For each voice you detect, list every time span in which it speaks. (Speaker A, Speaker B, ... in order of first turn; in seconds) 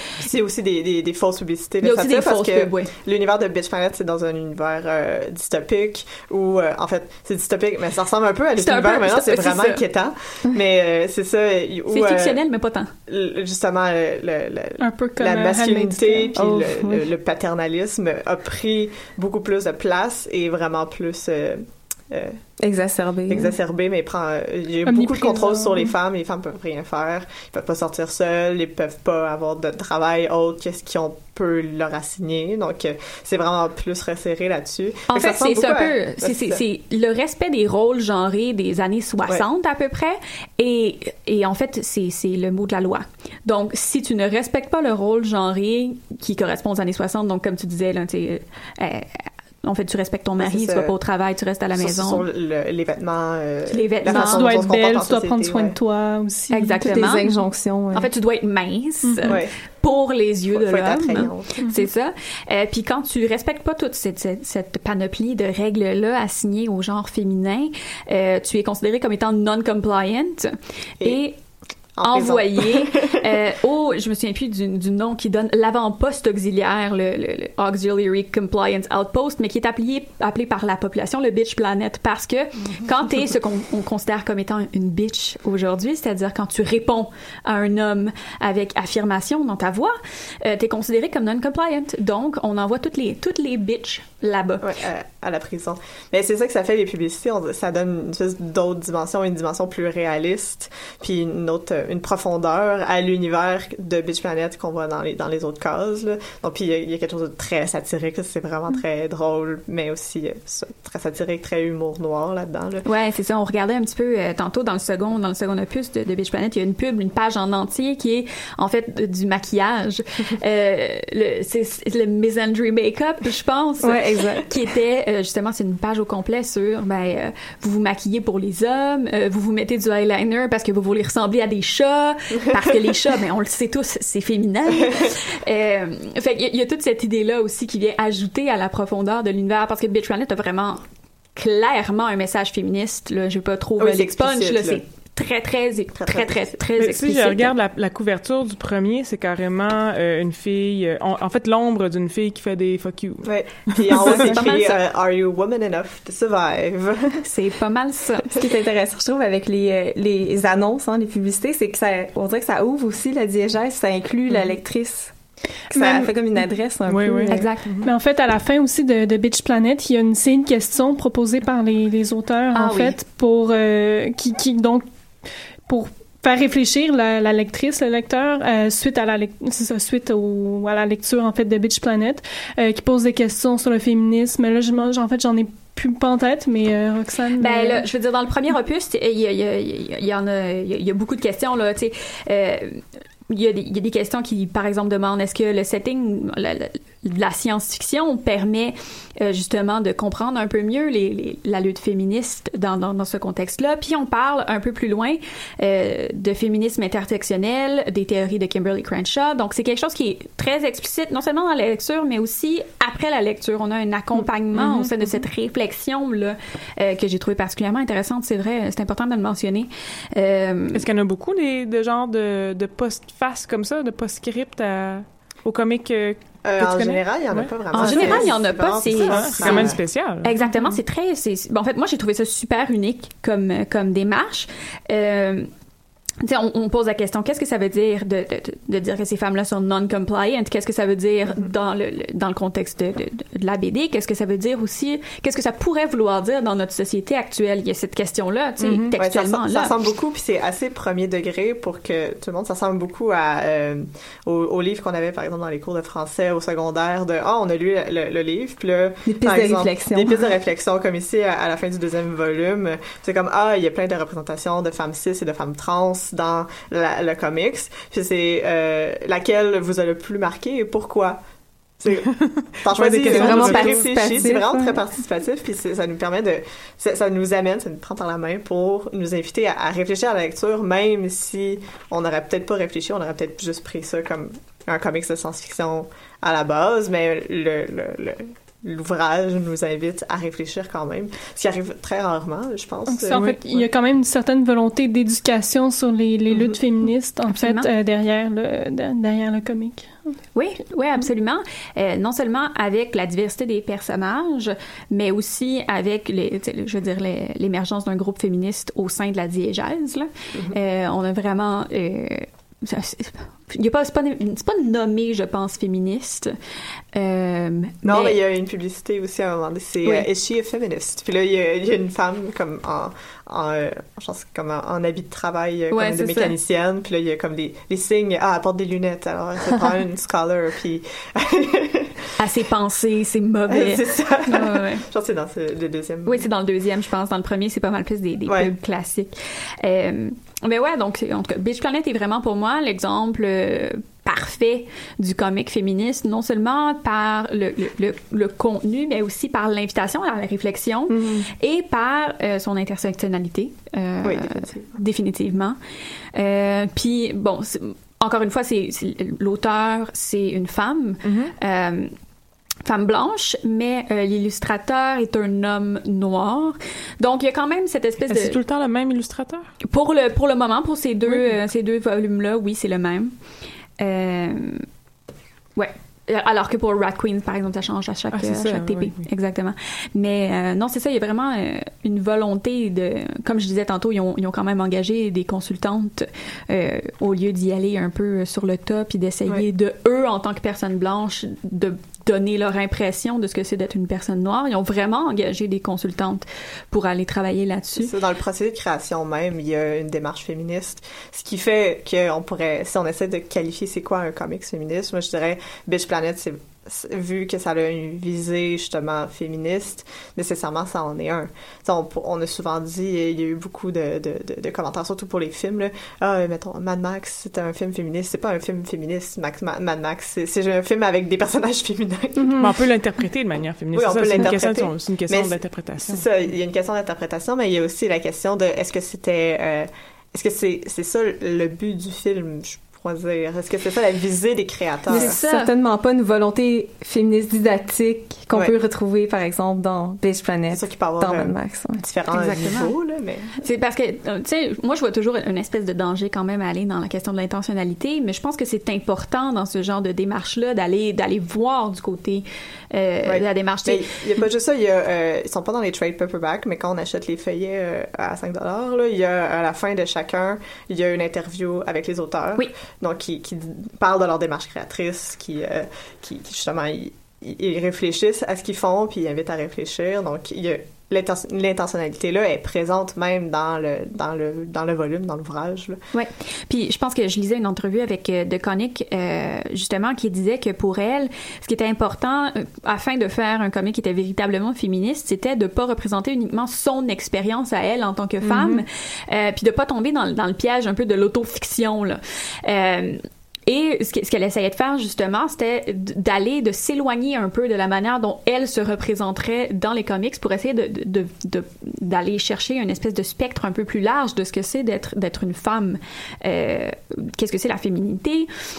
Speaker A: 0.2-12.4, 13.1-22.4, 23.3-36.6, 50.4-50.9, 51.8-55.8, 59.2-59.5, 60.5-61.6, 72.0-73.3, 94.6-112.9, 134.8-135.1, 143.8-144.8, 146.0-146.6, 153.2-157.2, 165.7-166.1, 226.4-229.8, 249.0-271.2, 271.8-293.7, 317.8-332.0, 333.5-336.3, 338.3-338.5, 354.0-354.8, 397.8-422.5, 423.7-435.2, 440.5-443.4, 453.1-475.8
Speaker B: 1.8-2.9, 8.6-9.8, 11.9-12.9, 35.1-52.2, 53.7-54.7, 56.5-57.3, 57.9-71.4, 72.0-94.6, 112.8-140.8, 141.4-147.5, 153.9-154.8, 157.2-158.3, 167.3-167.7, 172.5-173.0, 187.4-220.8, 227.7-235.5, 236.2-249.8, 297.3-297.7, 300.4-316.3, 316.9-318.2, 325.7-326.4, 332.2-334.9, 336.1-355.6, 356.1-361.9, 362.6-368.4, 369.6-373.1, 373.8-374.7, 375.6-397.9, 434.9-435.5, 442.1-442.8, 443.4-453.8, 475.9-508.3
Speaker C: 14.8-16.6, 24.9-25.9, 54.1-57.1, 59.0-59.4, 167.8-174.8, 175.7-187.8, 292.9-299.9
Speaker D: 16.4-17.0, 22.6-23.6, 56.8-58.1, 123.8-124.5, 158.3-165.1, 165.7-167.5, 259.1-260.3, 273.1-274.8, 434.9-441.8
Speaker E: 146.8-154.3, 166.9-167.9, 214.5-215.2, 220.7-228.3, 228.9-230.6, 248.6-248.9, 272.1-274.3, 361.1-361.3, 368.1-369.5, 371.1-371.4, 378.1-379.0, 422.4-426.1, 488.2-488.6